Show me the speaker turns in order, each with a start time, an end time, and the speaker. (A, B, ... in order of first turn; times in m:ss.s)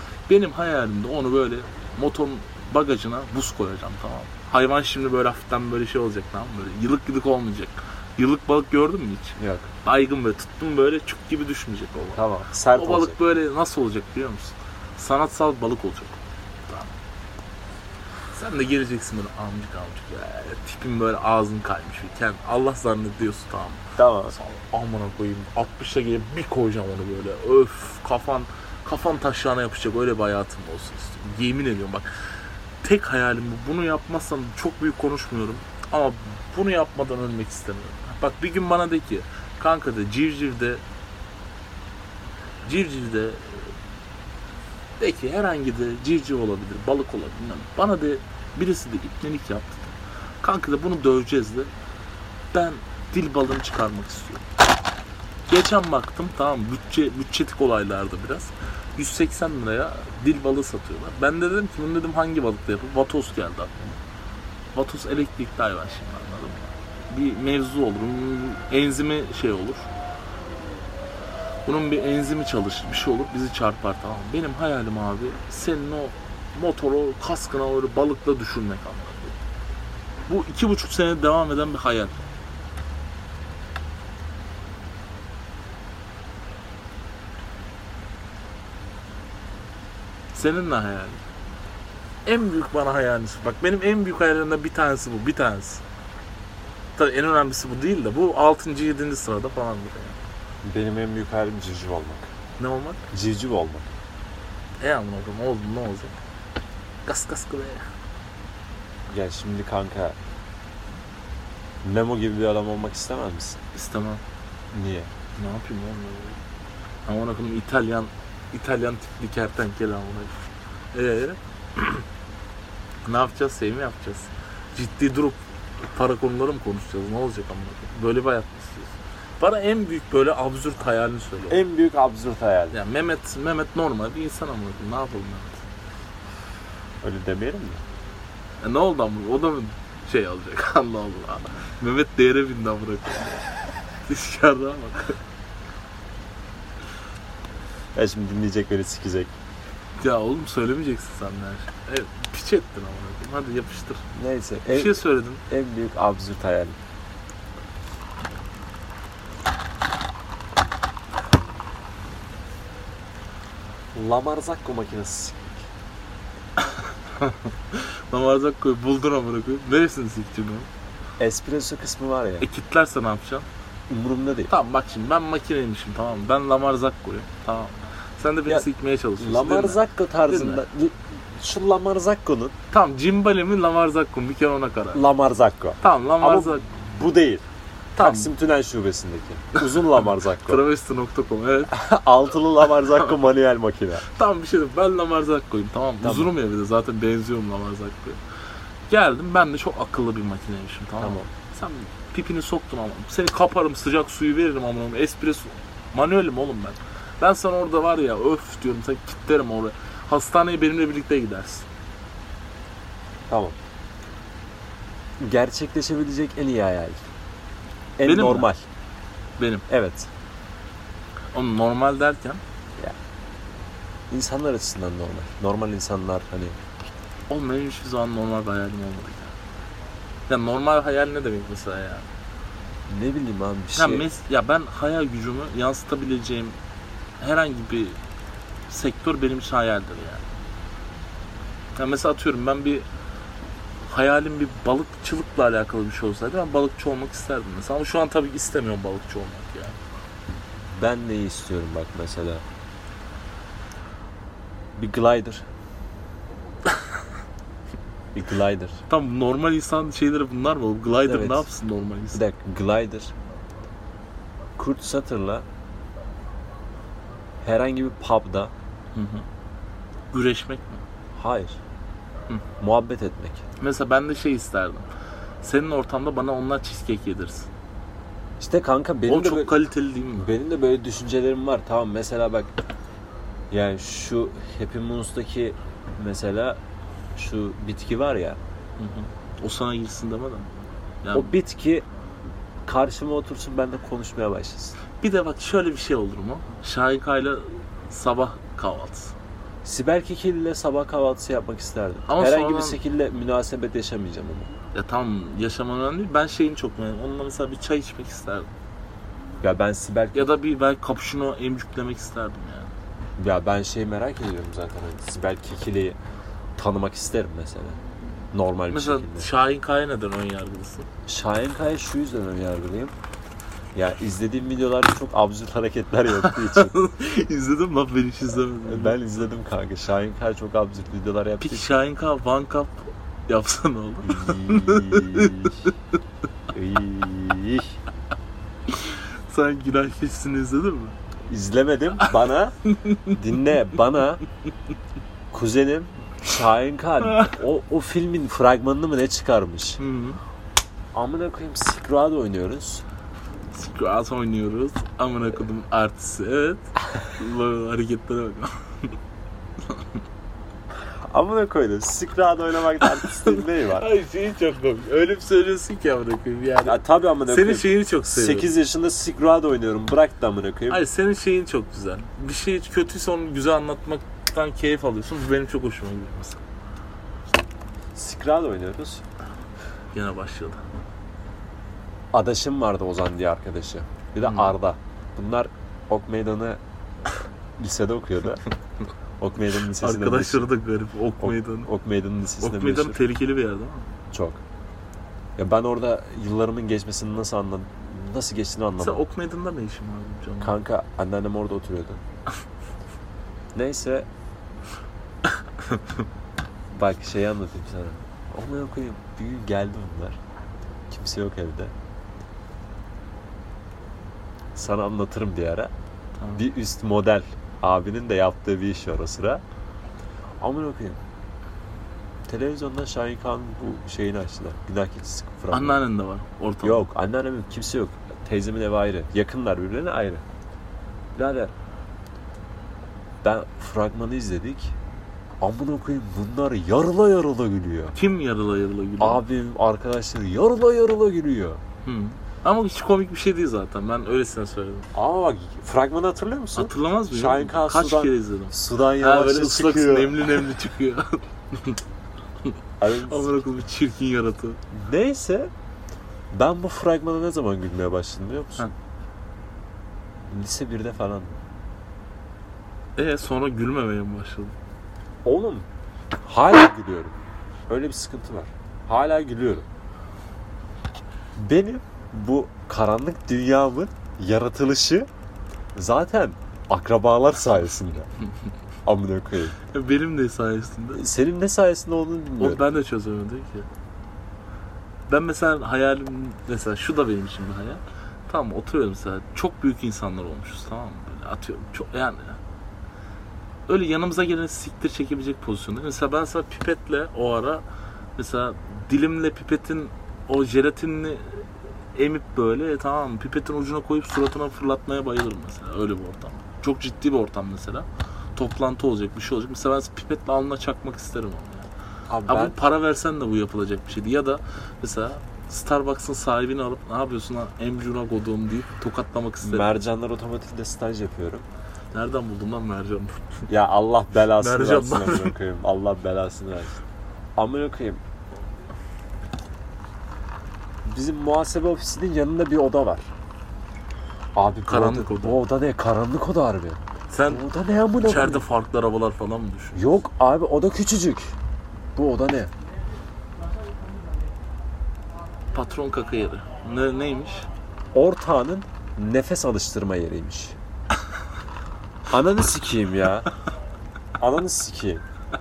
0:00.3-0:16.9 A
0:09.4-0:09.7 B
0:12.1-0:13.2 B
0:18.3-0:32.1 A
0:24.0-0:24.3 B
0:32.8-0:40.8 A
0:42.6-0:43.7 A
0:45.0-0:51.7 A
0:52.5-0:54.4 A
0:55.5-1:04.0 A
1:04.7-1:09.9 A
1:11.6-1:19.4 A
1:20.3-1:22.2 A
1:30.3-1:31.2 A
1:32.2-1:35.8 A
1:37.0-1:40.2 A
1:40.6-1:42.3 B
1:42.6-1:43.0 A
1:43.1-1:43.9 B
1:44.8-1:46.2 A
1:47.0-1:47.8 A
1:49.1-1:50.2 B
1:51.8-1:53.6 B
1:53.7-1:54.2 A
1:54.7-1:55.1 B
1:55.4-1:56.4 A
1:57.0-2:00.4 A
2:00.9-2:02.0 A
2:03.0-2:11.6 A
2:11.5-2:12.8 B
2:12.7-2:15.6 A
2:17.0-2:17.8 B
2:18.6-2:23.5 A
2:24.0-2:25.2 A
2:27.9-2:29.3 B
2:30.0-2:34.0 A
2:34.1-2:36.8 B
2:34.7-2:35.4 A
2:43.9-2:45.7 B
2:46.6-2:50.7 A
2:51.2-2:52.4 B
2:52.4-2:53.4 A
2:53.9-2:54.5 B
2:54.5-3:00.6 A
2:59.2-3:02.5 B
3:02.7-3:05.0 A
3:04.9-3:07.4 B
3:05.8-3:06.6 A
3:08.0-3:08.3 A
3:08.0-3:10.6 B
3:09.6-3:11.8 A
3:11.7-3:14.0 B
3:14.0-3:18.2 A
3:16.0-3:16.3 B
3:18.9-3:31.7 A
3:21.0-3:21.3 B
3:33.3-3:33.6 B
3:35.2-3:37.1 B
3:38.0-3:38.7 B
3:38.0-3:38.5 A
3:39.4-3:39.6 A
3:39.7-3:40.1 B
3:41.3-3:42.4 A
3:44.1-3:46.6 B
3:47.3-3:49.3 A
3:50.3-3:52.1 A
3:52.9-3:54.0 B
3:53.8-3:56.6 A
3:57.2-3:58.0 A
3:58.7-4:00.2 A
4:01.8-4:02.9 A
4:03.8-4:09.8 A
4:10.7-4:12.4 B
4:14.8-4:15.4 B
4:18.1-4:18.8 B
4:18.9-4:22.2 A
4:21.0-4:21.5 B
4:22.1-4:23.1 B
4:24.6-4:25.4 B
4:27.4-4:28.5 B
4:28.9-4:29.2 A
4:30.1-4:30.8 A
4:31.1-4:31.6 B
4:32.6-4:33.4 B
4:33.6-4:34.9 A
4:35.4-4:37.5 A
4:38.4-4:39.6 B
4:39.1-4:40.3 A
4:40.2-4:42.5 B
4:43.5-4:46.6 B
4:47.1-4:48.4 B
4:48.8-4:51.3 A
4:51.1-4:51.8 B
4:52.6-4:54.7 B
4:55.0-4:59.1 A
4:59.6-5:04.5 B
5:02.1-5:02.8 A
5:04.7-5:08.5 A
5:09.4-5:10.3 B
5:10.1-5:12.7 A
5:13.2-5:16.0 B
5:16.6-5:17.8 B
5:18.3-5:19.3 B
5:18.7-5:20.9 A
5:21.0-5:22.9 B
5:23.7-5:26.7 B
5:26.2-5:29.0 A
5:28.6-5:31.8 B
5:31.4-5:35.7 A
5:34.0-5:35.6 B
5:36.5-5:37.8 B
5:38.7-5:41.0 A
5:41.3-5:42.6 B
5:42.7-5:43.2 A
5:43.1-5:44.2 B
5:45.3-5:49.8 B
5:47.0-5:47.4 A
5:49.8-5:50.2 A
5:50.9-5:52.8 B
5:53.5-5:58.9 A
6:00.8-6:03.9 B
6:02.8-6:08.5 A
6:06.6-6:10.8 B
6:10.7-6:16.4 A
6:17.9-6:19.0 B
6:19.9-6:20.6 A
6:22.1-6:26.6 B
6:24.2-6:24.5 A
6:27.6-6:28.4 B
6:29.2-6:30.5 B
6:29.6-6:31.7 A
6:31.2-6:33.0 B
6:32.4-6:33.8 A
6:34.1-6:34.4 B
6:35.4-6:39.0 B
6:38.8-6:40.6 A
6:40.4-6:42.0 B
6:43.5-6:44.1 B
6:45.6-6:46.0 A
6:46.7-6:50.2 B
6:50.9-6:51.7 B
6:54.5-6:55.7 B
6:56.2-6:56.4 A
6:56.3-6:59.4 B
7:00.4-7:01.0 B
7:02.2-7:05.8 B
7:05.5-7:06.9 A
7:06.6-7:10.2 B
7:11.1-7:11.5 B
7:13.2-7:14.7 B
7:15.4-7:17.9 B
7:17.9-7:19.2 A
7:19.0-7:21.6 B
7:21.8-7:24.9 A
7:24.9-7:30.5 B
7:26.5-7:31.8 A
7:32.4-7:34.6 A
7:32.8-7:33.3 B
7:34.7-7:35.5 B
7:36.3-7:38.7 B
7:40.3-7:41.4 B
7:43.0-7:44.5 A
7:45.2-7:45.6 B
7:46.2-7:49.6 B
7:51.4-7:55.1 B
7:55.7-7:58.1 B
7:58.8-7:59.6 B
7:59.7-8:01.0 A
8:00.9-8:02.6 B
8:02.4-8:03.7 A
8:05.1-8:12.4 A
8:13.7-8:17.6 A
8:18.2-8:31.7 A
8:32.1-8:32.6 B
8:32.3-8:39.7 A
8:39.4-8:41.4 B
8:41.9-8:43.5 A
8:43.5-8:46.8 B
8:44.4-8:45.3 A
8:47.4-8:48.0 B
8:50.8-8:53.1 B
8:54.3-8:58.4 B
8:54.7-8:55.4 A
8:57.1-8:57.4 A
8:58.0-8:59.9 A
8:59.7-9:01.3 B
9:01.9-9:02.5 B
9:05.5-9:07.5 A
9:07.9-9:10.6 B
9:12.1-9:13.3 B
9:14.2-9:15.0 B